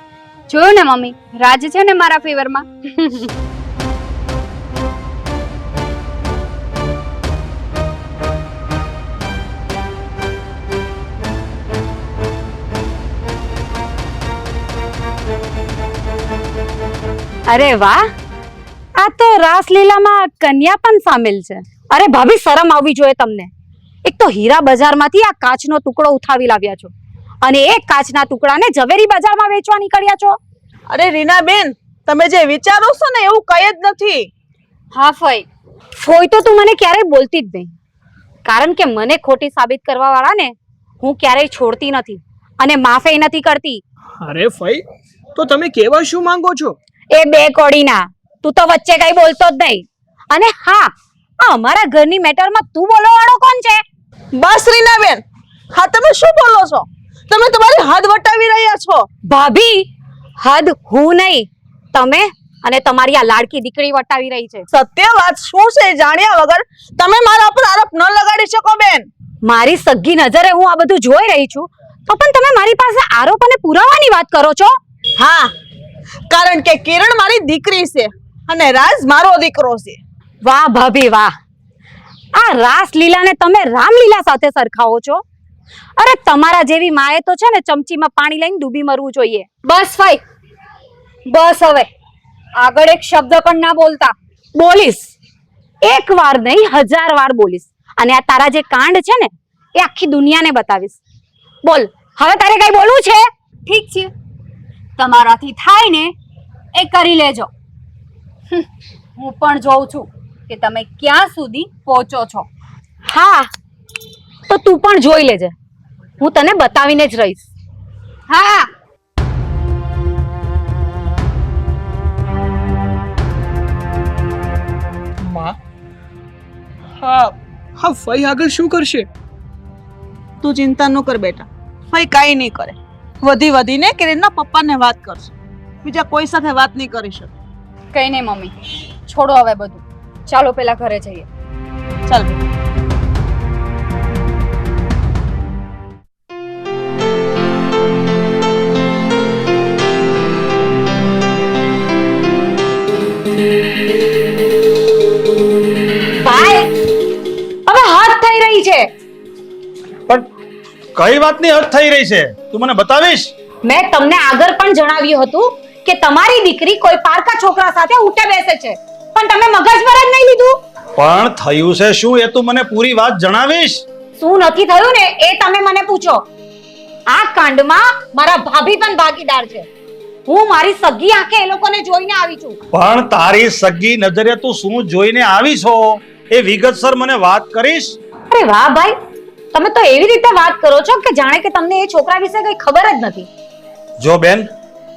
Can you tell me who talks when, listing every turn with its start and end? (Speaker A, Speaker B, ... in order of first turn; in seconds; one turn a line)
Speaker A: 0.5-3.3
Speaker B: 17.5-18.1
Speaker B: 19.0-23.5
Speaker B: 24.0-30.4
Speaker C: 30.9-34.3
Speaker A: 34.9-35.5
Speaker B: 36.0-37.7
Speaker B: 38.4-43.8
Speaker D: 44.2-44.8
Speaker D: 45.4-46.8
Speaker B: 47.1-53.8
Speaker C: 54.4-55.2
Speaker C: 55.7-59.1
Speaker B: 59.3-59.9
Speaker B: 60.4-64.7
Speaker C: 64.7-69.1
Speaker B: 69.4-74.8
Speaker C: 75.2-75.5
Speaker C: 76.3-80.0
Speaker B: 80.4-81.3
Speaker B: 82.3-85.2
Speaker B: 86.0-89.5
Speaker A: 89.6-90.2
Speaker A: 91.3-91.9
Speaker A: 92.6-94.1
Speaker B: 94.5-95.1
Speaker B: 95.8-101.0
Speaker B: 101.6-103.3
Speaker A: 103.7-104.1
Speaker A: 105.0-106.1
Speaker A: 106.8-107.5
Speaker A: 109.2-112.5
Speaker B: 113.1-113.5
Speaker B: 114.5-115.5
Speaker B: 116.2-117.5
Speaker A: 118.3-118.7
Speaker D: 125.2-125.6
Speaker D: 127.0-129.1
Speaker C: 130.4-135.3
Speaker C: 135.8-137.3
Speaker A: 137.9-141.3
Speaker C: 142.1-142.4
Speaker B: 156.2-156.7
Speaker B: 157.7-158.9
Speaker E: 160.9-163.3
Speaker B: 163.6-170.6
Speaker E: 171.0-173.8
Speaker B: 174.2-176.2
Speaker B: 177.1-179.7
Speaker B: 180.3-182.6
Speaker E: 182.7-188.0
Speaker B: 188.3-188.9
Speaker B: 189.5-193.3
Speaker E: 194.0-194.5